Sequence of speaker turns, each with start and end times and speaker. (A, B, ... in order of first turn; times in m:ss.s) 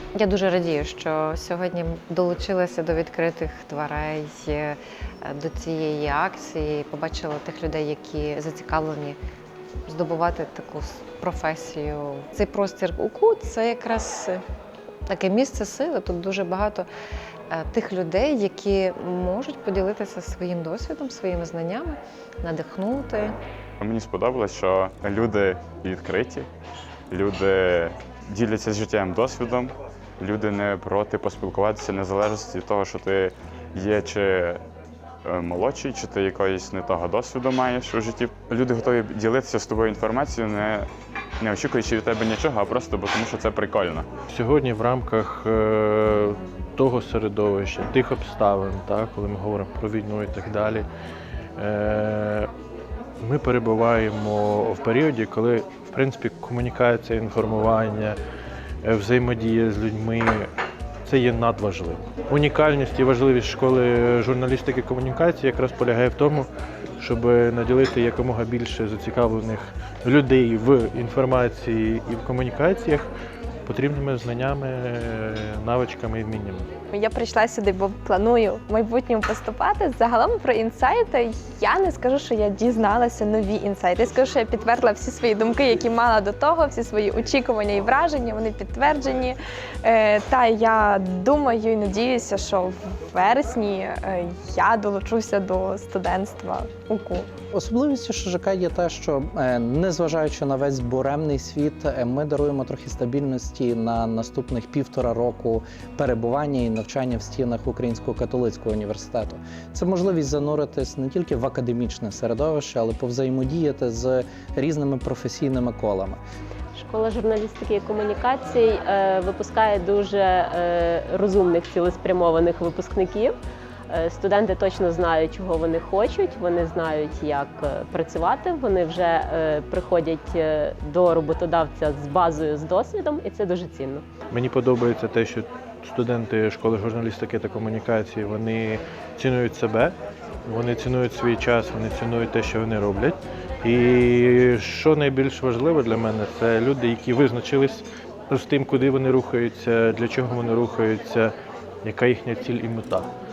0:00.2-0:09.2 A
0:09.9-0:14.4 A
0:15.1-0:16.9 A
0:17.5-0:23.4 A
0:23.8-0:26.5 B
0:27.1-0:34.6 B
0:35.2-0:40.9 B
0:41.4-0:44.1 B
0:44.3-0:50.9 C
0:51.6-0:52.5 C
0:53.2-0:58.2 C
0:58.8-1:00.5 C
1:01.1-1:06.5 C
1:07.0-1:13.1 C
1:13.7-1:16.7 C
1:16.9-1:37.3 D
1:37.5-1:56.2 E
1:56.7-2:03.4 F
2:03.9-2:14.0 F
2:14.3-2:20.0 C
2:20.5-2:33.1 C